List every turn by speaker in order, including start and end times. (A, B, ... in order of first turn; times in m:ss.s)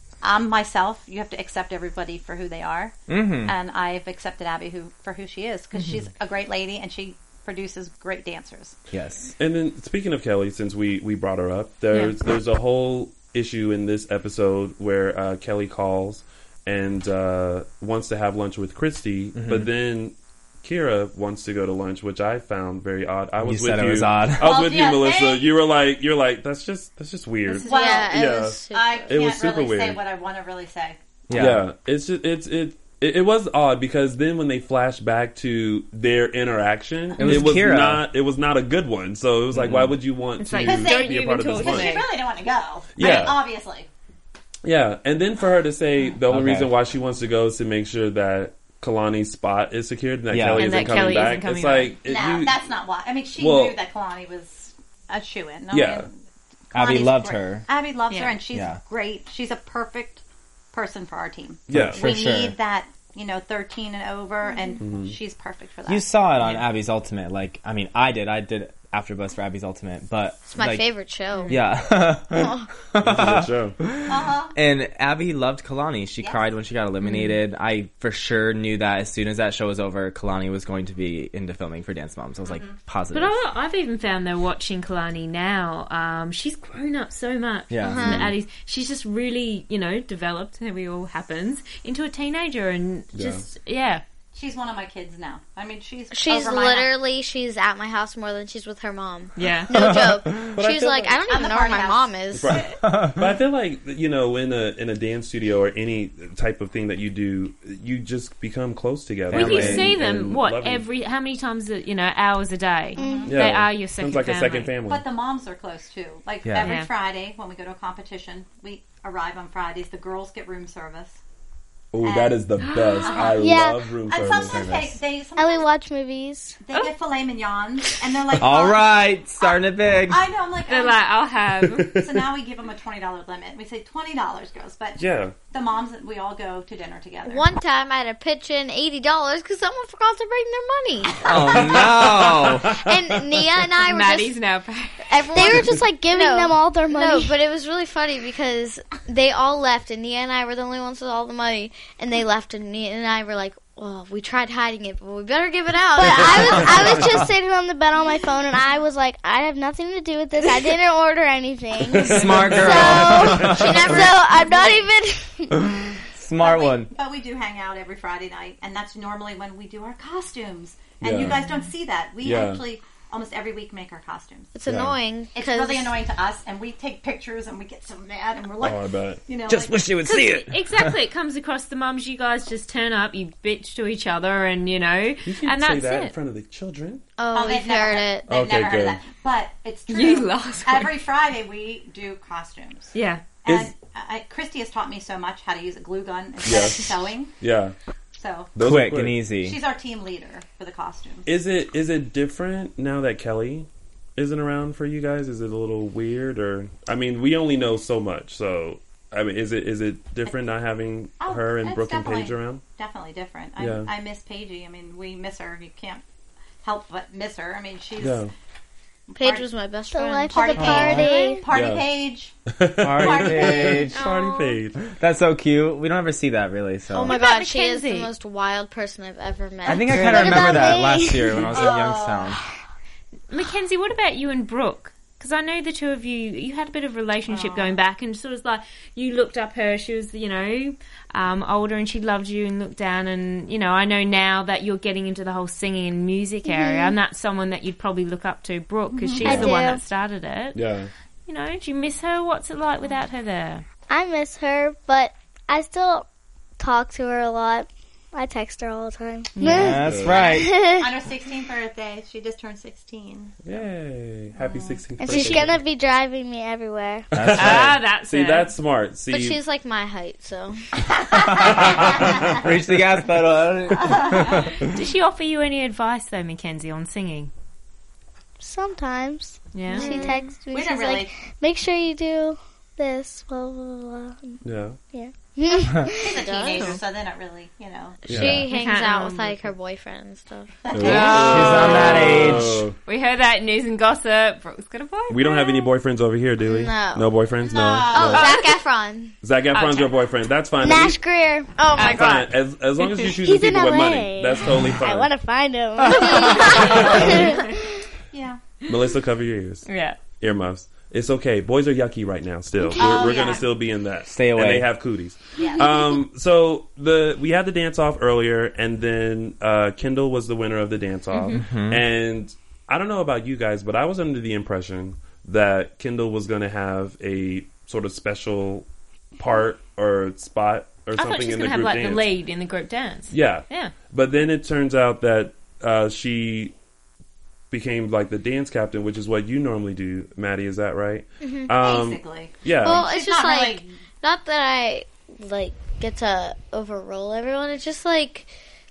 0:00.2-0:08.8 A
0:03.1-0:03.5 B
0:05.8-0:06.0 C
0:08.9-0:09.3 B
0:09.4-0:30.0 D
0:19.4-0:19.7 B
0:23.4-0:24.6 B
0:24.4-0:25.5 A
0:27.5-0:31.0 A
0:27.6-0:29.2 E
0:31.3-0:31.6 B
0:31.3-0:41.9 D
0:37.2-0:37.6 A
0:37.2-0:38.1 B
0:39.5-0:40.0 B
0:40.4-0:42.1 C
0:40.6-0:43.9 A
0:43.0-0:43.4 D
0:44.6-0:52.6 D
0:46.3-0:46.7 B
0:50.3-0:51.2 B
0:50.6-0:52.0 C
0:52.1-0:56.1 A
0:53.4-0:53.8 D
0:55.7-0:56.1 D
0:56.7-1:00.2 A
0:56.7-0:57.7 B
0:58.1-0:58.4 C
0:58.5-0:58.8 B
1:00.7-1:06.1 A
1:01.7-1:02.1 D
1:01.7-1:02.6 B
1:04.8-1:05.2 D
1:05.9-1:10.9 B
1:10.5-1:11.6 E
1:11.5-1:23.4 B
1:12.4-1:12.6 E
1:13.0-1:13.8 D
1:14.1-1:14.6 A
1:16.2-1:16.5 A
1:17.0-1:17.4 C
1:22.5-1:22.8 A
1:23.1-1:34.0 C
1:27.7-1:28.2 B
1:27.8-1:28.3 E
1:33.1-1:33.4 D
1:34.3-1:36.9 A
1:36.1-1:42.7 E
1:39.4-1:39.8 C
1:39.8-1:40.0 B
1:40.5-1:41.2 D
1:41.2-1:42.7 A
1:42.3-1:50.8 D
1:42.8-1:43.3 B
1:49.3-1:50.0 B
1:49.3-1:54.7 C
1:53.0-1:53.3 A
1:53.0-1:53.3 F
1:53.3-1:55.0 D
1:54.9-2:01.2 A
1:56.4-1:56.7 B
1:56.6-1:56.9 C
2:01.9-2:04.8 D
2:02.0-2:02.4 A
2:02.6-2:03.3 C
2:03.0-2:03.4 A
2:03.4-2:03.9 F
2:04.1-2:05.7 A
2:04.2-2:05.0 B
2:05.4-2:06.6 F
2:06.6-2:11.1 A
2:08.4-2:10.2 B
2:10.7-2:11.9 C
2:11.6-2:12.3 D
2:12.0-2:17.5 A
2:15.0-2:15.3 D
2:17.2-2:21.6 E
2:21.2-2:22.8 B
2:21.6-2:22.8 D
2:22.7-2:24.4 E
2:23.8-2:25.1 C
2:25.1-2:37.2 E
2:25.3-2:27.3 F
2:36.0-2:45.6 F
2:41.9-2:44.0 D
2:42.0-2:44.0 B
2:43.4-2:44.9 E
2:46.2-2:46.9 B
2:46.4-2:54.5 A
2:51.0-2:51.4 D
2:51.3-2:51.7 C
2:52.2-2:52.6 D
2:54.5-2:56.0 E
2:54.7-2:54.9 D
2:55.3-2:59.9 A
2:58.6-2:59.2 D
2:59.5-3:01.0 B
3:00.1-3:06.1 C
3:05.3-3:07.0 D
3:07.2-3:08.3 E
3:07.3-3:12.9 A
3:08.3-3:09.0 D
3:09.9-3:10.9 C
3:12.9-3:13.2 C
3:13.4-3:17.3 A
3:16.4-3:16.9 D
3:17.4-3:17.8 D
3:18.2-3:18.5 A
3:18.6-3:19.2 D
3:18.6-3:19.6 B
3:19.4-3:21.3 A
3:21.3-3:32.6 D
3:31.2-3:36.0 A
3:33.6-3:33.9 D
3:36.6-3:38.3 A
3:38.0-3:38.3 D
3:39.1-3:39.5 A
3:39.2-3:40.9 E
3:39.9-3:41.5 F
3:40.3-3:42.4 A
3:40.6-3:41.1 B
3:41.5-3:41.9 D
3:42.5-3:44.9 D
3:42.8-3:44.0 B
3:42.9-3:43.9 A
3:44.0-3:44.6 C
3:45.0-3:47.2 B
3:46.9-3:50.6 E
3:47.1-3:48.1 C
3:49.6-3:52.4 B
3:49.7-3:51.5 F
3:51.5-3:52.4 A
3:53.3-4:10.6 C
3:57.3-3:57.8 A
4:06.5-4:06.9 F
4:08.9-4:09.6 A
4:09.2-4:09.8 F
4:10.5-4:10.9 D
4:11.3-4:13.6 C
4:13.9-4:16.1 F
4:16.6-4:20.9 F
4:19.4-4:19.8 C
4:19.4-4:20.5 B
4:19.7-4:20.2 D
4:20.2-4:23.3 A
4:23.4-4:25.6 D
4:25.0-4:27.1 F
4:27.1-4:27.8 B
4:27.2-4:29.4 D
4:27.4-4:28.5 C
4:29.1-4:30.6 E
4:31.2-4:31.8 A
4:32.3-4:34.6 B
4:33.8-4:34.4 A
4:34.5-4:37.3 C
4:38.4-4:44.4 F
4:39.5-4:40.1 C
4:39.7-4:40.2 E
4:39.7-4:41.1 A
4:44.4-4:44.8 D
4:44.9-4:46.2 F
4:46.0-4:48.0 A
4:46.2-4:46.8 E
4:46.5-4:46.8 C
4:48.0-4:50.5 E
4:48.1-4:48.4 D
4:48.5-4:49.5 C
4:50.7-4:51.6 A
4:50.7-4:52.8 D
4:50.8-4:52.7 B
4:50.8-4:51.8 C
4:52.9-4:55.3 C
4:55.1-4:58.4 D
4:56.4-4:57.1 E
4:57.4-4:58.5 A
4:57.9-4:59.2 E
4:59.2-5:01.0 D
4:59.5-4:59.9 C
5:00.6-5:01.5 F
5:01.6-5:02.2 E
5:01.8-5:02.3 C
5:01.9-5:05.1 D
5:02.8-5:07.7 F
5:06.0-5:07.1 A
5:08.1-5:08.4 A
5:08.7-5:09.6 D
5:09.7-5:10.0 C
5:10.2-5:32.1 D
5:12.6-5:13.3 F
5:12.8-5:13.5 A
5:14.1-5:14.7 B
5:15.4-5:15.6 A
5:21.1-5:21.4 C
5:21.4-5:21.8 B
5:31.0-5:33.7 C
5:33.1-5:36.6 D
5:37.5-5:42.9 D
5:41.6-5:43.7 A
5:42.6-5:48.3 E